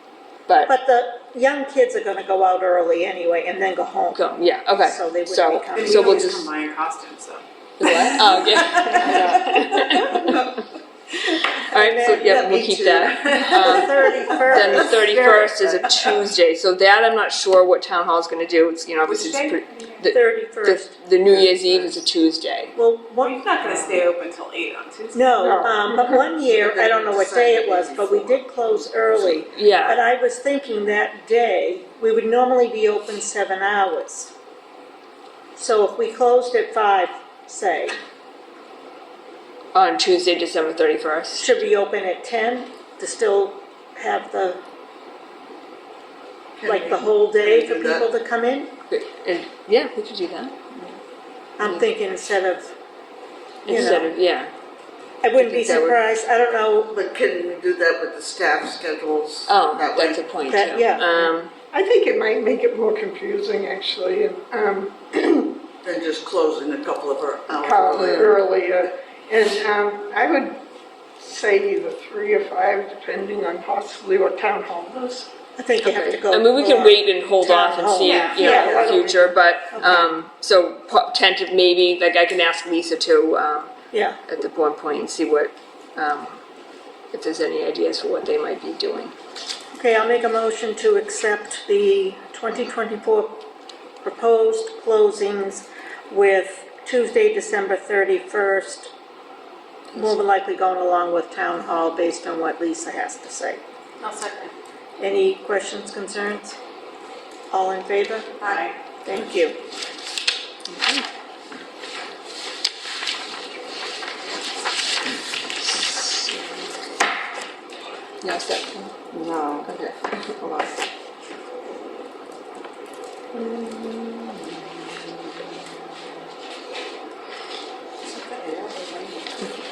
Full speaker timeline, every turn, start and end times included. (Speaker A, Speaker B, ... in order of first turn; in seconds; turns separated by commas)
Speaker A: 0.5-0.7, Speaker B: 0.7-4.2, Speaker A: 4.2-6.5, Speaker B: 4.8-6.5, Speaker C: 5.8-10.3, Speaker A: 7.8-10.6, Speaker A: 11.3-22.8, Speaker B: 11.7-12.4, Speaker D: 12.1-15.0, Speaker B: 13.5-15.9, Speaker C: 19.1-20.1, Speaker B: 20.1-20.9, Speaker B: 22.8-23.4, Speaker C: 23.2-25.3, Speaker E: 23.6-24.0, Speaker B: 25.1-34.4, Speaker E: 25.4-26.1, Speaker D: 26.4-29.5, Speaker A: 29.5-30.0, Speaker B: 35.6-38.0, Speaker A: 39.7-41.6, Speaker B: 41.4-44.6, Speaker D: 46.6-48.1, Speaker B: 46.6-48.7, Speaker A: 48.9-51.0, Speaker B: 51.6-52.8, Speaker A: 53.6-54.5, Speaker B: 53.7-54.1, Speaker B: 55.2-57.0, Speaker A: 55.4-56.0, Speaker D: 56.9-60.2, Speaker A: 59.5-61.5, Speaker B: 60.5-61.3, Speaker E: 61.7-65.6, Speaker D: 65.8-68.4, Speaker E: 67.6-70.6, Speaker E: 71.2-75.3, Speaker B: 75.6-79.1, Speaker A: 75.8-83.7, Speaker C: 78.0-78.9, Speaker E: 78.4-79.3, Speaker B: 79.7-80.1, Speaker B: 83.9-84.2, Speaker A: 84.3-86.4, Speaker A: 87.1-89.2, Speaker B: 89.8-93.5, Speaker B: 94.0-98.9, Speaker B: 99.9-103.6, Speaker C: 104.0-104.5, Speaker B: 105.0-106.6, Speaker B: 107.5-109.6, Speaker C: 108.4-108.8, Speaker A: 110.7-111.1, Speaker A: 115.6-116.7, Speaker A: 118.2-119.0, Speaker D: 119.1-119.7, Speaker A: 119.6-120.7, Speaker A: 123.4-124.2, Speaker C: 128.1-129.2